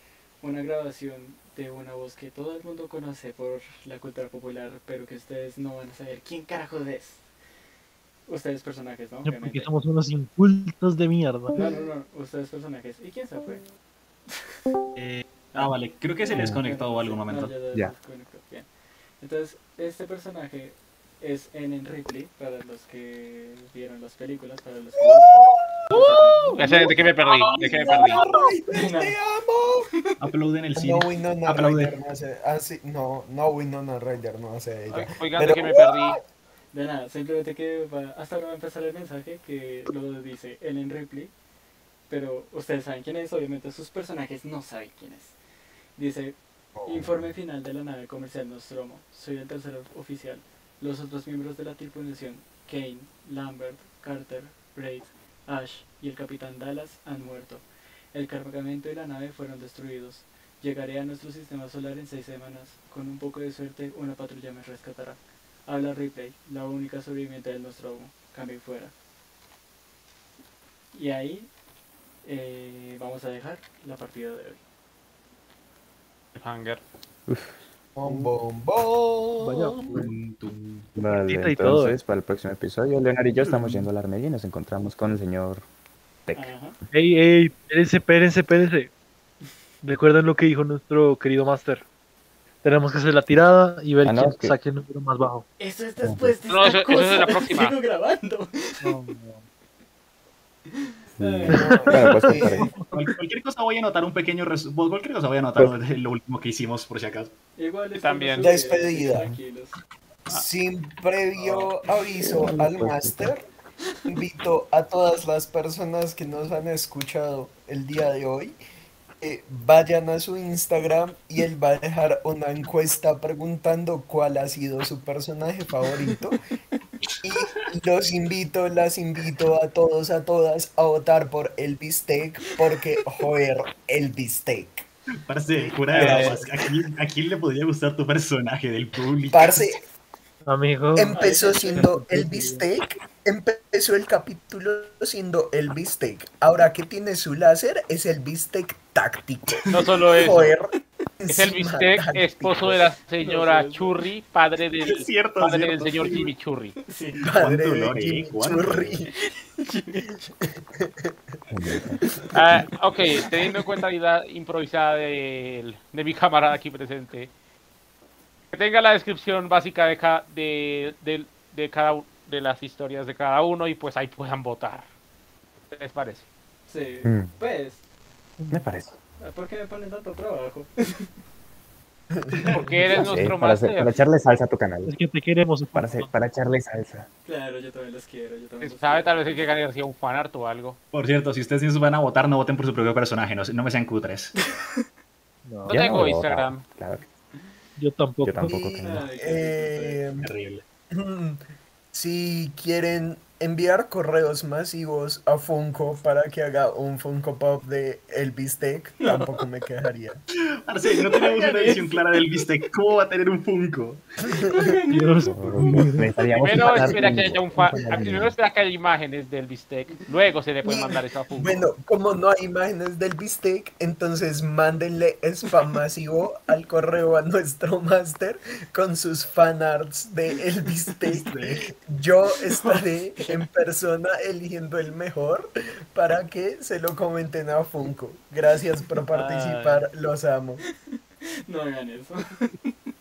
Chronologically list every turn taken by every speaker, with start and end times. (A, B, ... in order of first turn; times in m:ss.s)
0:00.4-0:07.3 A
0:08.3-0:09.7 A
0:09.2-0:11.7 B
0:11.5-0:13.6 A
0:15.0-0:17.6 C
0:15.5-0:18.7 A
0:19.2-0:26.7 A
0:25.0-0:26.9 D
0:26.6-0:28.2 E
0:27.3-0:28.2 C
0:27.6-0:29.9 D
0:28.7-0:29.2 A
0:30.2-0:32.0 C
0:30.8-0:36.2 D
0:34.9-0:36.2 E
0:36.7-0:41.3 A
0:42.1-0:45.4 A
0:46.0-1:08.9 A
0:46.8-0:47.3 F
1:10.9-1:11.5 A
1:12.2-1:14.6 A
1:16.3-1:16.8 E
1:17.3-1:17.6 F
1:18.0-1:20.0 D
1:18.0-1:18.3 B
1:19.4-1:20.1 B
1:19.9-1:20.9 C
1:21.0-1:25.6 F
1:21.2-1:22.0 B
1:26.3-1:26.5 F
1:26.4-1:26.8 A
1:26.9-1:28.9 B
1:29.8-1:31.8 B
1:32.6-1:35.5 B
1:34.0-1:34.6 F
1:35.6-1:39.0 A
1:36.0-1:36.3 F
1:36.5-1:37.8 E
1:38.8-1:39.5 B
1:40.7-1:42.1 A
1:41.2-1:42.7 F
1:41.5-1:42.9 B
1:41.6-1:42.6 D
1:42.9-1:47.3 C
1:47.6-1:49.8 A
1:48.0-1:48.5 E
1:48.4-1:49.4 D
1:50.3-1:53.4 D
1:52.2-1:53.3 F
1:54.1-1:58.6 D
1:59.2-2:06.4 D
2:07.2-2:14.9 D
2:15.3-2:19.7 C
2:16.0-2:16.6 D
2:16.0-2:16.4 B
2:19.3-2:19.8 D
2:20.5-2:22.6 B
2:20.9-2:29.7 D
2:21.1-2:21.8 A
2:29.6-2:29.8 C
2:29.7-2:30.5 E
2:30.2-2:32.8 D
2:31.3-2:36.8 E
2:33.2-2:34.0 A
2:34.8-2:36.2 C
2:36.9-2:37.3 A
2:37.2-2:39.1 D
2:37.4-2:39.0 C
2:39.3-2:40.1 A
2:40.3-2:41.1 D
2:41.5-2:42.0 F
2:42.0-2:42.6 D
2:42.3-2:47.3 E
2:48.5-2:54.9 E
2:55.7-2:56.3 E
2:56.7-2:57.8 A
2:57.0-2:57.3 F
2:58.4-2:58.6 B
2:58.5-2:59.0 F
2:59.2-3:01.1 A
3:02.2-3:02.6 D
3:02.5-3:03.1 B
3:02.5-3:04.0 E
3:02.9-3:05.0 F
3:04.9-3:06.1 B
3:05.7-3:07.1 F
3:07.2-3:09.5 A
3:08.6-3:10.8 E
3:10.9-3:14.3 C
3:15.5-3:15.8 B
3:15.7-3:17.0 F
3:15.7-3:16.6 E
3:17.8-3:18.6 B
3:18.2-3:19.0 F
3:18.5-3:20.3 D
3:18.8-3:20.1 A
3:20.2-3:20.6 C
3:20.9-3:21.4 D
3:21.9-3:30.2 D
3:29.0-3:29.3 A
3:30.7-3:34.0 C
3:31.0-3:32.4 A
3:34.4-3:35.9 A
3:34.9-3:36.1 B
3:35.3-3:38.3 F
3:36.4-3:41.6 E
3:36.6-3:38.3 D
3:36.7-3:37.0 B
3:40.6-4:00.6 D
3:51.1-3:51.6 C
3:52.5-3:53.3 A
3:59.2-3:59.8 E
4:01.5-4:02.8 A